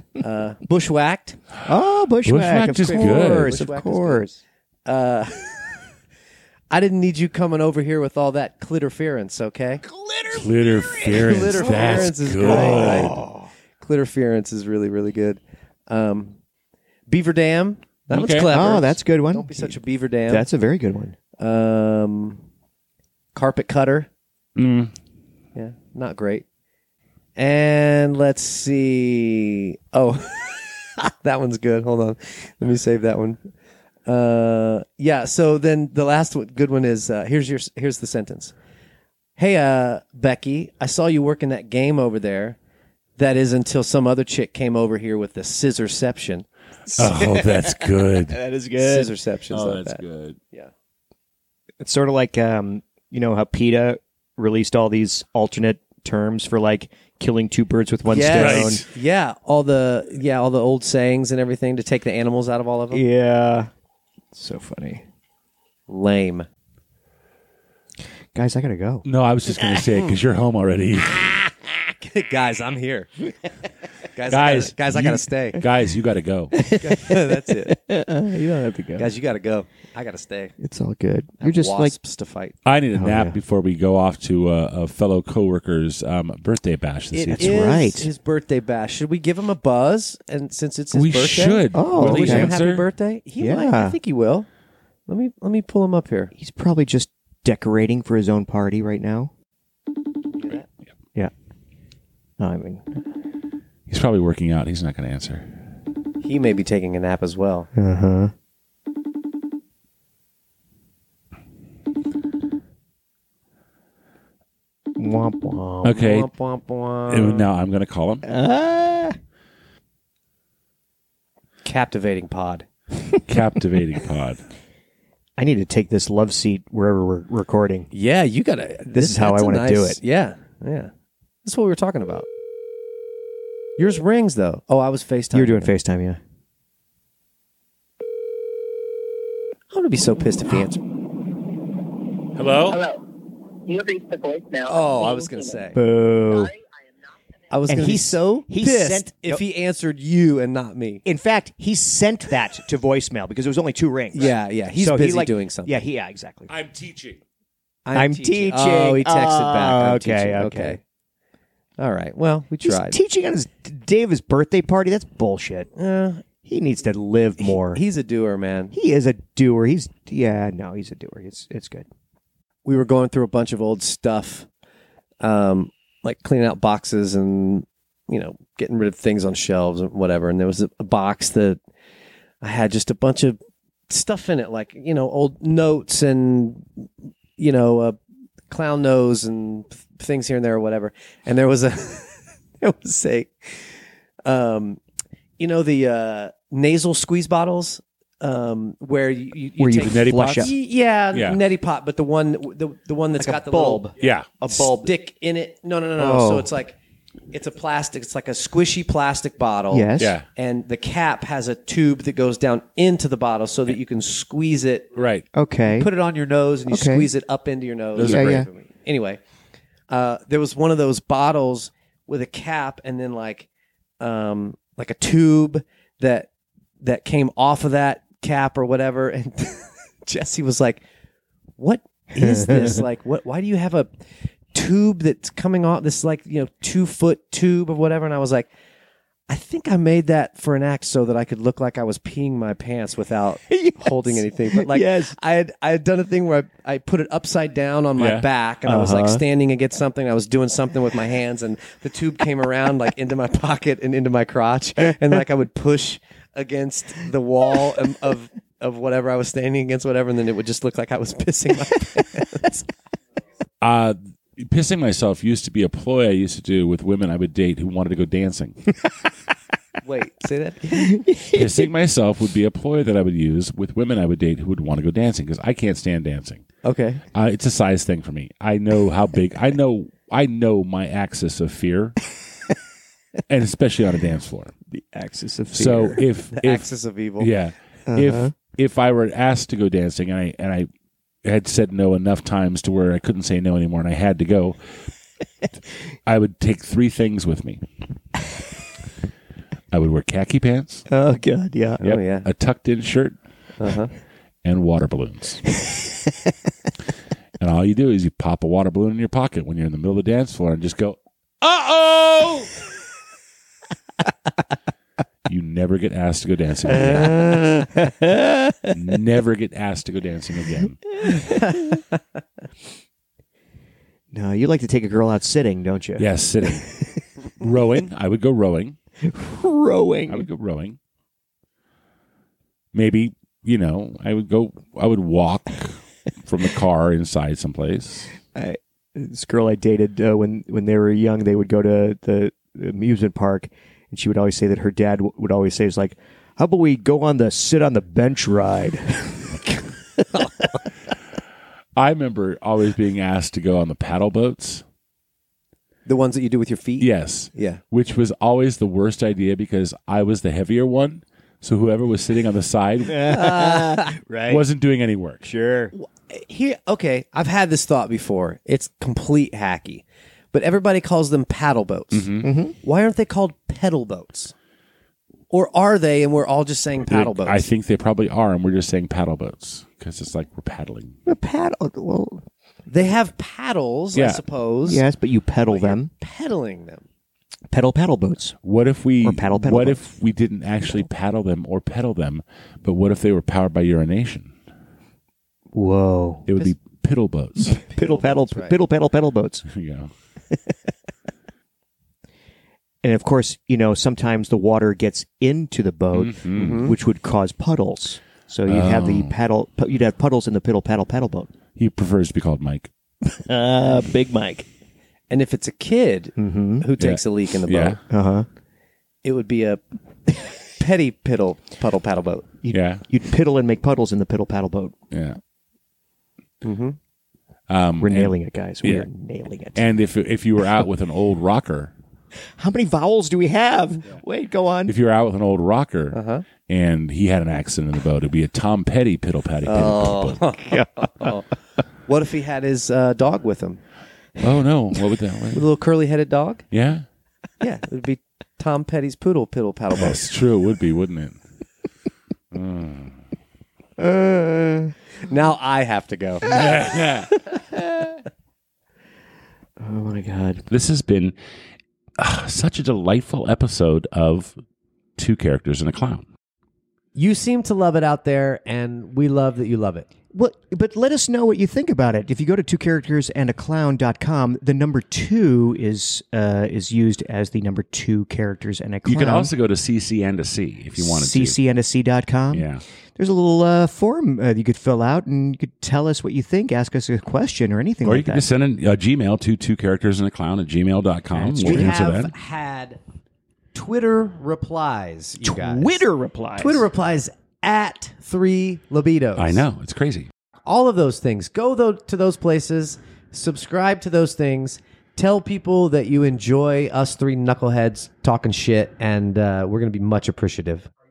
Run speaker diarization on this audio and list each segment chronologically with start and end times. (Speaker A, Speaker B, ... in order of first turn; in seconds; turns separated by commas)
Speaker A: 0.2-1.4, Speaker B: 1.6-4.4, Speaker C: 2.2-3.6, Speaker A: 2.6-4.2, Speaker A: 4.8-5.7, Speaker A: 6.7-9.8, Speaker B: 9.8-13.5, Speaker C: 10.3-13.2, Speaker A: 11.0-13.2, Speaker A: 13.8-16.4, Speaker A: 17.1-20.4, Speaker C: 18.1-18.5, Speaker B: 18.5-19.8, Speaker B: 20.3-21.1, Speaker A: 21.4-22.4, Speaker A: 23.3-24.1, Speaker C: 24.6-24.9, Speaker A: 25.5-26.4, Speaker A: 27.4-33.4, Speaker A: 34.0-38.5, Speaker A: 39.4-42.6, Speaker A: 43.2-46.5, Speaker B: 46.9-49.1, Speaker C: 47.0-48.4, Speaker A: 48.8-50.0, Speaker C: 49.5-50.4, Speaker B: 51.8-58.8, Speaker A: 58.1-63.0, Speaker C: 58.3-58.8, Speaker B: 62.9-63.7, Speaker B: 64.3-65.0, Speaker A: 65.9-66.5, Speaker B: 68.3-69.0, Speaker C: 69.0-71.4, Speaker A: 71.9-73.1, Speaker A: 74.1-75.6, Speaker C: 74.3-76.5, Speaker B: 76.5-79.1, Speaker A: 76.8-77.8, Speaker A: 79.0-80.5, Speaker B: 80.6-81.9, Speaker A: 81.4-82.5, Speaker C: 82.6-87.6, Speaker B: 82.9-83.4, Speaker A: 87.1-94.5, Speaker B: 87.3-88.1, Speaker C: 90.9-92.8, Speaker B: 91.7-92.5, Speaker B: 93.4-94.0, Speaker A: 95.1-96.3, Speaker B: 96.3-99.3, Speaker A: 100.3-100.7, Speaker B: 102.4-103.0, Speaker C: 103.9-105.5, Speaker A: 106.2-107.7, Speaker B: 107.7-108.3, Speaker B: 115.0-116.0, Speaker C: 115.8-116.3, Speaker A: 115.8-117.5, Speaker C: 117.1-118.2, Speaker B: 118.2-119.2, Speaker A: 121.6-122.7, Speaker C: 123.3-124.4, Speaker B: 125.4-127.9, Speaker A: 127.9-130.9, Speaker B: 128.9-130.0, Speaker A: 131.4-132.3, Speaker A: 133.8-135.7, Speaker B: 135.3-136.2, Speaker A: 139.7-140.8, Speaker C: 142.3-142.8, Speaker D: 142.7-143.0, Speaker D: 143.7-145.6, Speaker A: 144.7-145.8, Speaker B: 145.7-146.5, Speaker A: 147.5-151.0, Speaker B: 147.7-149.4, Speaker B: 151.0-156.5, Speaker A: 154.1-155.8, Speaker C: 156.5-157.2, Speaker A: 157.8-160.8, Speaker B: 157.9-160.8, Speaker A: 161.8-163.0, Speaker B: 162.6-165.7, Speaker A: 165.8-166.2, Speaker B: 166.4-167.8, Speaker A: 167.4-168.7, Speaker B: 168.7-171.8, Speaker A: 172.6-174.5, Speaker A: 175.2-181.6, Speaker A: 182.4-183.4, Speaker A: 183.9-186.6, Speaker A: 187.4-187.9, Speaker A: 188.5-193.7, Speaker A: 194.2-194.8, Speaker A: 195.4-203.9, Speaker B: 199.6-200.5, Speaker C: 199.8-200.5, Speaker C: 201.1-201.4, Speaker B: 203.2-204.9, Speaker C: 204.0-204.3, Speaker A: 204.5-206.8, Speaker B: 206.0-206.5, Speaker A: 207.3-214.9, Speaker B: 209.7-210.1, Speaker C: 210.0-210.2, Speaker C: 214.9-215.2, Speaker B: 215.3-215.9, Speaker A: 215.7-219.2, Speaker B: 216.7-217.1, Speaker C: 217.9-218.4, Speaker B: 218.0-218.5, Speaker A: 219.9-223.5, Speaker A: 224.0-226.3, Speaker A: 226.8-230.8, Speaker A: 231.6-233.9, Speaker B: 232.2-232.8, Speaker A: 234.5-238.5, Speaker A: 239.3-262.6, Speaker B: 243.5-245.1, Speaker C: 248.0-248.2, Speaker B: 248.7-249.2, Speaker C: 263.6-268.6, Speaker A: 269.8-271.0, Speaker B: 270.9-271.4, Speaker C: 271.3-276.4, Speaker A: 276.6-277.0, Speaker C: 277.1-281.9, Speaker C: 283.3-284.5, Speaker B: 284.7-286.0, Speaker C: 285.5-290.7, Speaker A: 286.3-287.3, Speaker B: 287.9-288.3, Speaker C: 291.2-294.8, Speaker C: 296.1-297.6, Speaker C: 299.7-300.9, Speaker B: 300.9-301.8, Speaker C: 301.8-303.2, Speaker A: 301.8-302.3, Speaker A: 303.6-303.9, Speaker C: 304.4-305.4, Speaker B: 305.5-306.3, Speaker C: 307.4-312.5, Speaker C: 315.2-317.4, Speaker B: 316.7-318.7, Speaker C: 318.7-320.8, Speaker B: 321.0-321.5, Speaker A: 321.2-321.8, Speaker B: 324.1-327.0, Speaker C: 326.0-326.7, Speaker C: 327.4-328.8, Speaker B: 329.0-330.2, Speaker C: 330.1-330.8, Speaker C: 332.7-338.1, Speaker B: 338.3-349.3, Speaker A: 349.5-350.6, Speaker C: 351.8-354.6, Speaker A: 355.9-357.6, Speaker C: 356.8-363.2, Speaker B: 362.9-364.4, Speaker A: 363.1-364.0, Speaker C: 364.3-365.2, Speaker B: 365.2-365.7, Speaker A: 365.7-374.3, Speaker C: 371.9-372.3, Speaker B: 372.2-372.5, Speaker A: 375.3-377.5, Speaker C: 376.8-380.9, Speaker B: 381.1-382.2, Speaker A: 382.7-384.8, Speaker C: 383.9-384.2, Speaker B: 384.6-385.9, Speaker A: 385.5-386.8, Speaker B: 387.5-388.4, Speaker C: 388.4-394.3, Speaker B: 389.0-389.8, Speaker B: 395.5-396.5, Speaker C: 396.3-397.6, Speaker B: 397.5-399.4, Speaker A: 397.8-398.5, Speaker C: 399.5-399.9, Speaker B: 402.8-411.3, Speaker C: 405.9-406.6, Speaker A: 406.4-406.7, Speaker C: 408.5-409.1, Speaker C: 411.6-412.7, Speaker B: 413.1-414.4, Speaker A: 415.1-417.8, Speaker B: 416.2-416.6, Speaker C: 416.8-417.8, Speaker B: 417.9-418.2, Speaker A: 419.0-422.3, Speaker B: 422.4-424.7, Speaker C: 422.5-422.8, Speaker C: 424.9-425.2, Speaker A: 426.4-426.8, Speaker C: 427.5-428.9, Speaker B: 427.8-429.6, Speaker C: 429.6-431.7, Speaker B: 432.4-434.7, Speaker C: 434.7-440.2, Speaker A: 435.9-436.2, Speaker A: 439.4-441.2, Speaker B: 440.5-441.1, Speaker A: 441.9-443.6, Speaker C: 444.2-445.4, Speaker A: 445.3-446.4, Speaker C: 446.5-446.8, Speaker A: 447.4-450.0, Speaker C: 449.7-451.2, Speaker C: 452.3-453.0, Speaker B: 453.8-454.7, Speaker A: 455.0-456.4, Speaker C: 456.2-457.1, Speaker B: 459.6-460.4, Speaker C: 460.5-461.1, Speaker C: 462.0-464.4, Speaker C: 465.0-466.1, Speaker A: 466.9-469.9, Speaker B: 470.1-479.3, Speaker C: 478.8-481.4, Speaker B: 480.8-488.2, Speaker C: 482.3-482.6, Speaker C: 487.8-492.1, Speaker B: 491.2-491.7, Speaker A: 491.4-492.8, Speaker A: 493.5-495.8, Speaker B: 495.2-496.6, Speaker A: 496.4-499.4, Speaker C: 499.1-500.1, Speaker A: 500.4-510.7